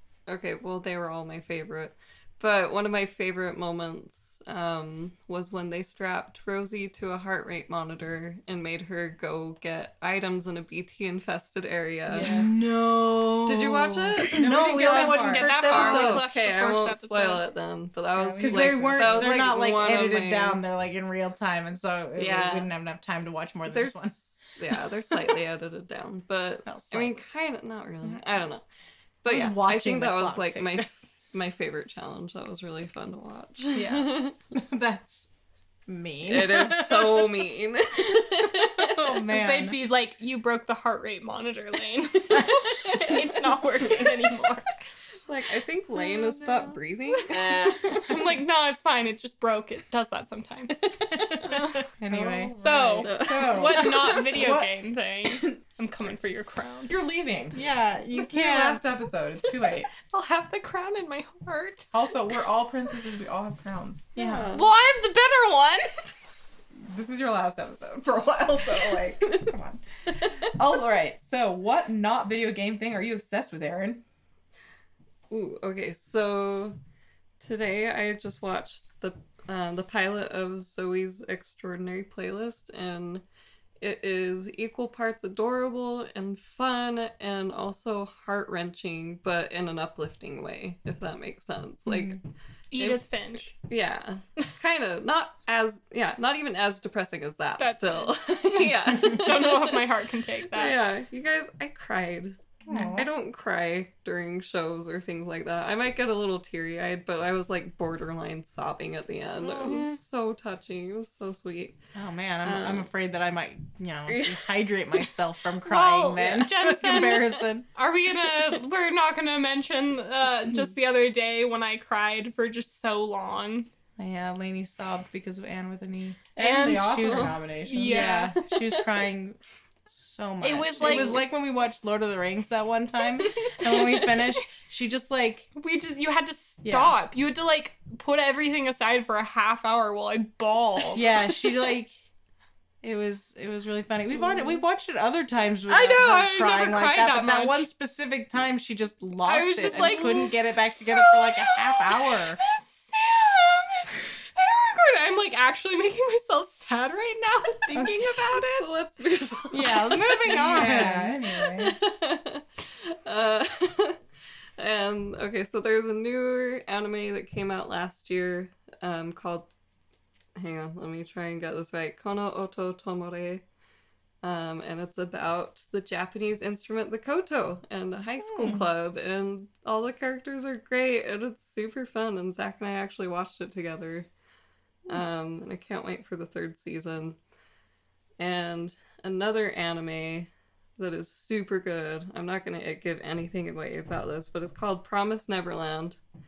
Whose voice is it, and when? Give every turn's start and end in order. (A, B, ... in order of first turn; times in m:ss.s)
0:00.3-0:12.5 A
0:12.1-0:12.6 B
0:12.1-0:16.2 C
0:13.4-0:14.5 A
0:14.2-0:16.0 B
0:15.1-0:17.4 D
0:15.6-0:20.6 A
0:18.2-0:19.4 B
0:18.3-0:24.2 C
0:22.2-0:22.7 A
0:23.7-0:28.6 A
0:26.6-0:27.2 C
0:29.2-0:34.4 A
0:29.2-0:30.9 C
0:33.7-0:35.3 C
0:35.9-0:37.3 C
0:36.3-0:39.0 A
0:38.8-0:39.8 C
0:39.2-0:44.8 D
0:45.2-0:48.0 A
0:47.3-0:50.8 D
0:50.8-0:51.4 A
0:51.1-0:51.4 C
0:51.3-0:51.8 D
0:52.0-0:53.4 C
0:52.1-0:54.7 B
0:52.6-0:56.9 D
0:53.0-0:54.2 A
0:56.9-0:59.9 B
0:57.5-0:58.8 C
0:58.1-0:58.8 D
0:59.9-1:01.9 D
1:01.9-1:04.3 B
1:04.2-1:04.5 C
1:04.2-1:04.7 A
1:04.5-1:06.0 D
1:06.8-1:09.5 B
1:09.5-1:09.8 C
1:10.2-1:14.0 B
1:15.3-1:16.8 A
1:17.4-1:23.2 A
1:23.8-1:32.2 A
1:31.9-1:32.2 C
1:32.7-1:33.5 D
1:32.8-1:39.8 A
1:37.6-1:40.8 D
1:40.5-1:51.8 A
1:42.7-1:43.0 C
1:42.7-1:43.0 B
1:49.6-1:50.0 C
1:49.6-1:49.9 D
1:51.9-1:57.6 C
1:52.4-1:52.9 A
1:54.1-1:55.1 A
1:55.6-2:03.7 D
2:04.0-2:15.5 C
2:06.4-2:08.4 D
2:06.4-2:08.4 B
2:08.5-2:08.9 A
2:10.4-2:11.2 D
2:13.8-2:14.0 D
2:15.6-2:21.7 D
2:16.6-2:16.9 C
2:21.0-2:22.0 C
2:22.8-2:32.4 C
2:25.7-2:27.6 D
2:29.2-2:38.7 D
2:29.8-2:30.2 A
2:37.8-2:44.0 A
2:39.5-2:41.8 C
2:40.1-2:41.3 B
2:44.6-2:49.5 A
2:50.4-2:53.4 A
2:54.2-3:04.1 A
2:58.2-2:58.7 C
3:04.9-3:07.2 A
3:08.2-3:16.0 A